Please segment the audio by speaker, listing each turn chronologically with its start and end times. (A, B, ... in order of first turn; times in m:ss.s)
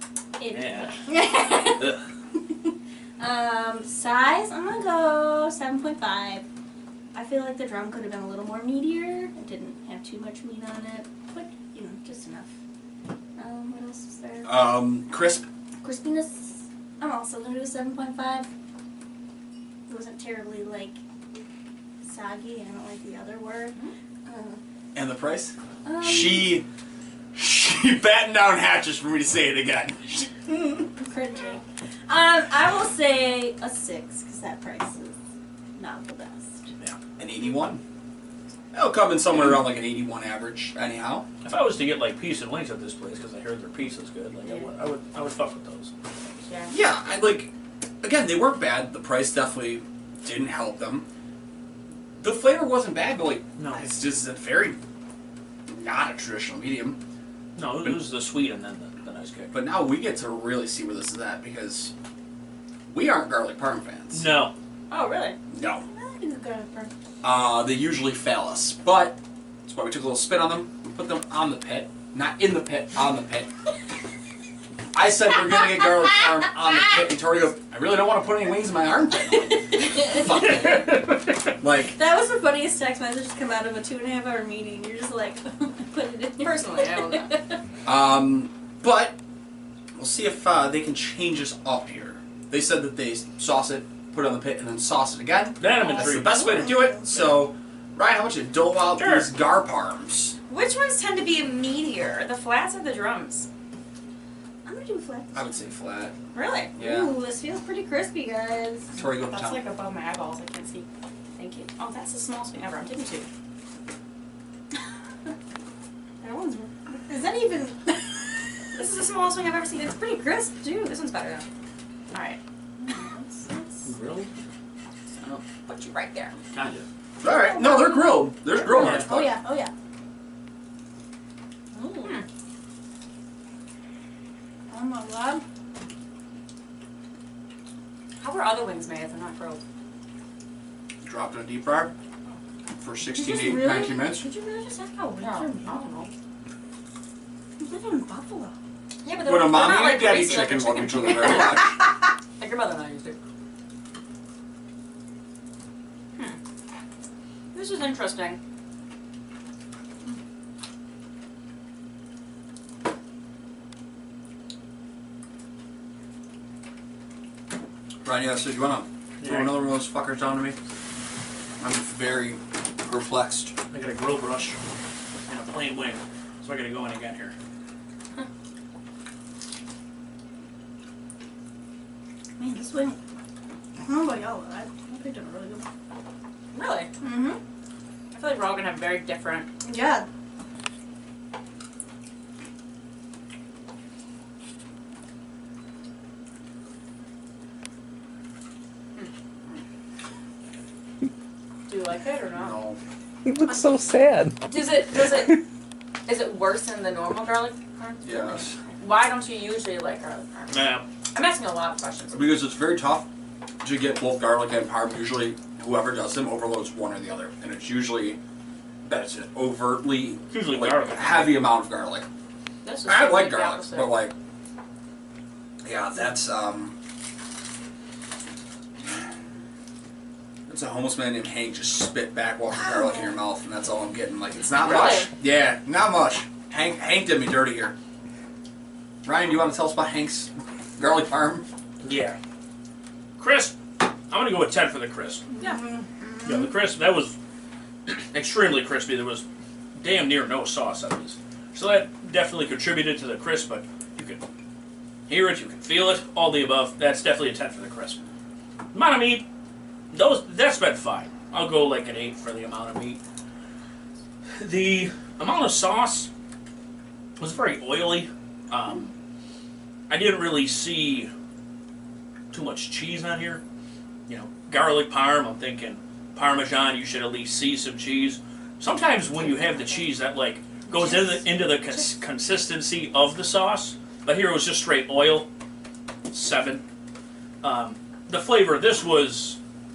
0:00.4-0:06.4 A
0:00.5-0:01.0 B
0:07.1-0:12.5 A
0:13.4-0:14.6 A
0:14.4-0:15.4 C
0:15.8-0:18.5 A
0:19.9-0:21.0 A
0:22.0-0:24.6 A
0:24.9-0:26.6 C
0:25.8-0:26.6 A
0:27.3-0:30.3 C
0:30.6-0:35.1 A
0:35.8-0:36.7 A
0:37.2-0:37.8 C
0:38.7-0:41.3 C
0:41.4-0:45.9 B
0:46.7-0:51.0 C
0:52.2-0:54.8 C
0:53.6-0:53.8 B
0:55.7-0:57.0 C
0:57.5-0:59.5 B
0:59.5-1:01.9 C
1:02.9-1:04.2 C
1:04.1-1:04.5 B
1:04.9-1:05.4 D
1:05.5-1:05.8 C
1:05.8-1:06.9 A
1:07.2-1:13.5 C
1:14.9-1:21.1 C
1:19.5-1:20.8 A
1:20.3-1:21.4 B
1:21.6-1:22.0 C
1:21.9-1:27.6 A
1:26.4-1:27.3 D
1:27.8-1:29.2 C
1:30.0-1:40.4 C
1:35.6-1:37.3 B
1:35.8-1:37.1 A
1:39.0-1:39.3 B
1:40.5-1:43.5 D
1:44.6-1:45.6 A
1:45.3-1:46.1 C
1:46.3-1:46.7 D
1:46.8-1:47.2 C
1:46.8-1:49.0 A
1:48.9-1:49.6 C
1:49.0-1:53.3 D
1:56.2-1:58.4 A
1:58.7-2:01.4 D
2:00.6-2:00.9 A
2:02.1-2:02.4 D
2:02.8-2:03.9 A
2:03.8-2:04.3 B
2:05.2-2:06.4 D
2:06.5-2:06.8 B
2:07.2-2:09.4 C
2:07.2-2:09.7 A
2:08.7-2:09.1 B
2:11.7-2:12.2 A
2:14.7-2:15.4 A
2:18.2-2:19.6 D
2:21.0-2:21.9 C
2:22.8-2:24.2 C
2:23.2-2:25.8 A
2:24.2-2:26.1 D
2:27.6-2:28.5 A
2:29.0-2:31.5 D
2:29.2-2:31.8 C
2:32.4-2:33.2 D
2:37.5-2:38.4 D
2:48.0-2:50.6 C
2:49.2-2:49.6 B
2:51.6-2:53.5 C
2:53.7-2:54.6 B
2:55.3-2:57.3 B
3:02.4-3:03.0 A
3:03.8-3:05.7 A
3:06.5-3:06.9 D
3:07.0-3:07.4 A
3:08.1-3:09.5 D
3:09.6-3:10.0 A
3:21.7-3:22.6 D
3:22.3-3:22.8 C
3:23.2-3:25.4 E
3:24.4-3:25.4 D
3:26.0-3:30.6 D
3:28.0-3:28.6 C
3:30.5-3:30.8 B
3:31.1-3:32.3 D
3:32.1-3:33.1 C
3:33.6-3:38.2 C
3:38.8-3:42.0 C
3:40.3-3:41.5 B
3:42.6-3:44.0 D
3:42.8-3:44.1 C
3:45.6-3:46.8 C
3:50.5-3:57.7 C
3:54.6-3:55.1 D
3:59.0-4:01.5 C
4:01.8-4:02.2 B
4:03.2-4:05.2 B
4:05.3-4:06.5 A
4:06.2-4:07.2 B
4:07.9-4:09.2 B
4:09.8-4:14.2 B
4:15.1-4:18.0 B
4:18.7-4:19.3 B
4:19.9-4:23.0 B
4:24.4-4:26.1 B
4:27.2-4:28.9 B
4:29.9-4:31.1 B
4:32.3-4:33.4 B
4:34.1-4:45.3 B
4:40.7-4:41.2 A
4:46.1-4:46.6 B
4:47.4-4:49.4 B